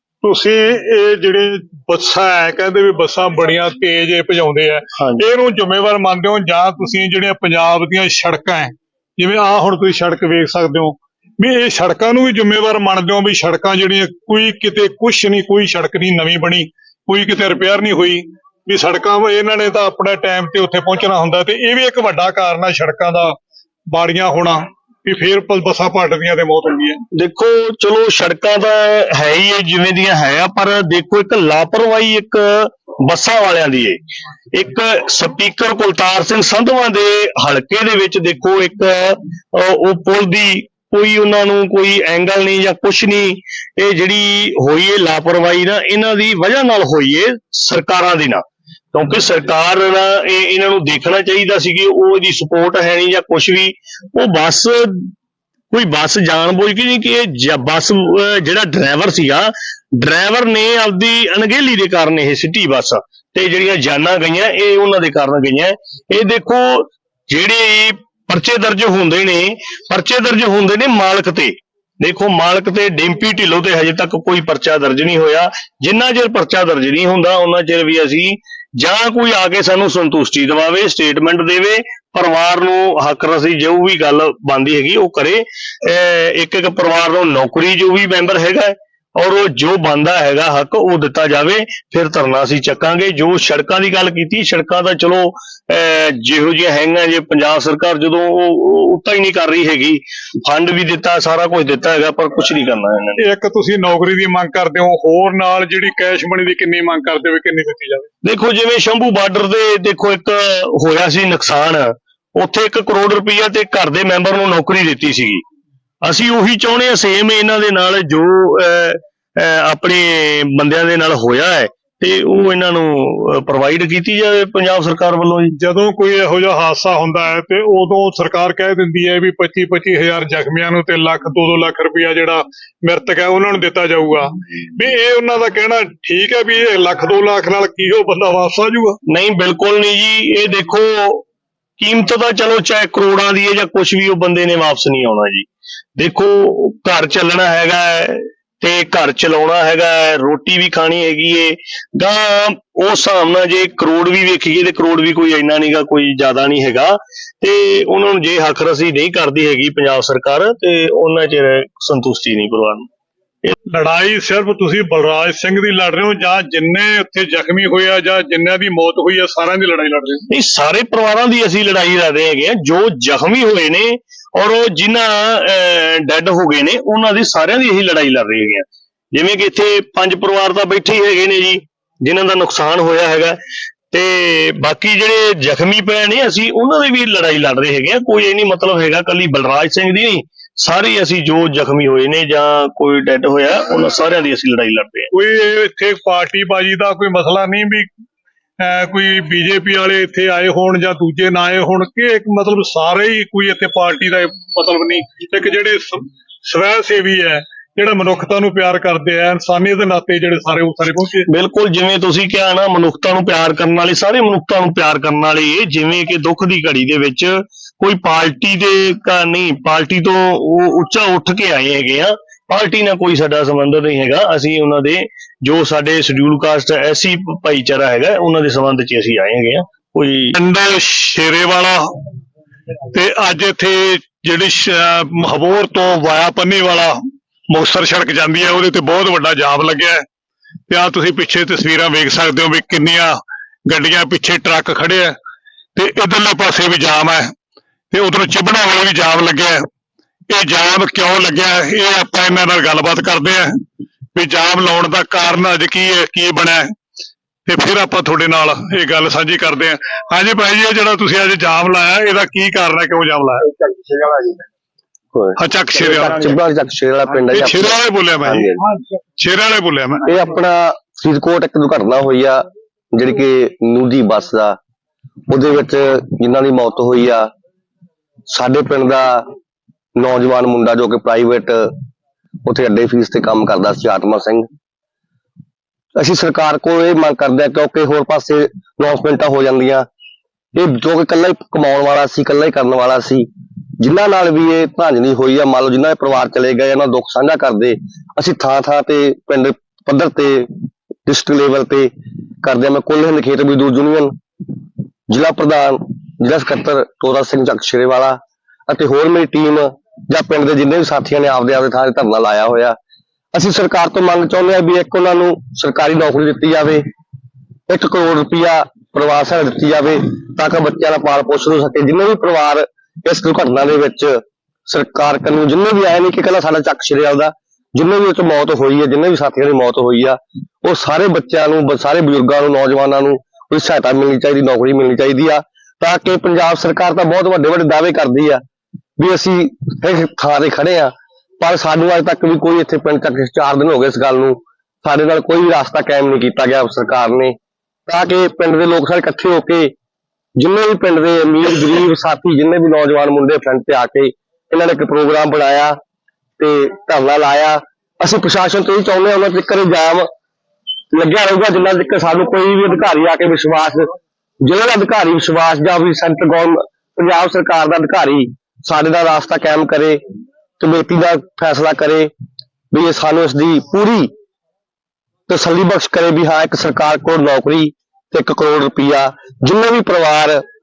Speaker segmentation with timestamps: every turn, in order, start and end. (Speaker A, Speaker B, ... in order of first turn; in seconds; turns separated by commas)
Speaker A: 0.2-23.4, Speaker A: 23.9-27.0, Speaker B: 27.1-34.0, Speaker B: 34.5-55.1, Speaker B: 55.7-103.2, Speaker A: 103.2-108.1, Speaker B: 108.2-115.4, Speaker B: 116.0-125.5, Speaker A: 125.6-139.0, Speaker B: 139.1-141.2, Speaker B: 141.8-162.9, Speaker A: 163.7-170.2, Speaker B: 170.3-183.4, Speaker B: 183.9-195.1, Speaker A: 195.1-197.9, Speaker A: 198.6-211.3, Speaker B: 211.3-230.3, Speaker A: 230.3-231.9, Speaker A: 232.9-236.9, Speaker A: 237.5-240.0, Speaker A: 240.7-243.2, Speaker A: 243.7-245.2, Speaker A: 245.8-247.3, Speaker A: 247.9-249.6, Speaker A: 250.3-253.6, Speaker A: 254.1-256.7, Speaker A: 257.4-263.5, Speaker C: 265.1-268.6, Speaker A: 265.4-266.3, Speaker A: 267.3-268.5, Speaker A: 269.2-270.0, Speaker C: 270.0-274.6, Speaker C: 275.3-277.3, Speaker C: 278.3-279.3, Speaker C: 279.9-281.8, Speaker C: 282.4-284.5, Speaker C: 285.9-289.9, Speaker C: 290.5-293.3, Speaker C: 293.8-300.5, Speaker C: 301.1-301.9, Speaker C: 302.4-304.1, Speaker C: 305.1-312.8, Speaker C: 313.3-316.8, Speaker C: 317.7-338.4, Speaker C: 339.0-347.4, Speaker C: 347.9-349.7, Speaker C: 350.4-355.8, Speaker C: 356.4-360.1, Speaker C: 360.9-370.0, Speaker C: 370.6-372.1, Speaker C: 372.7-374.1, Speaker C: 375.3-380.4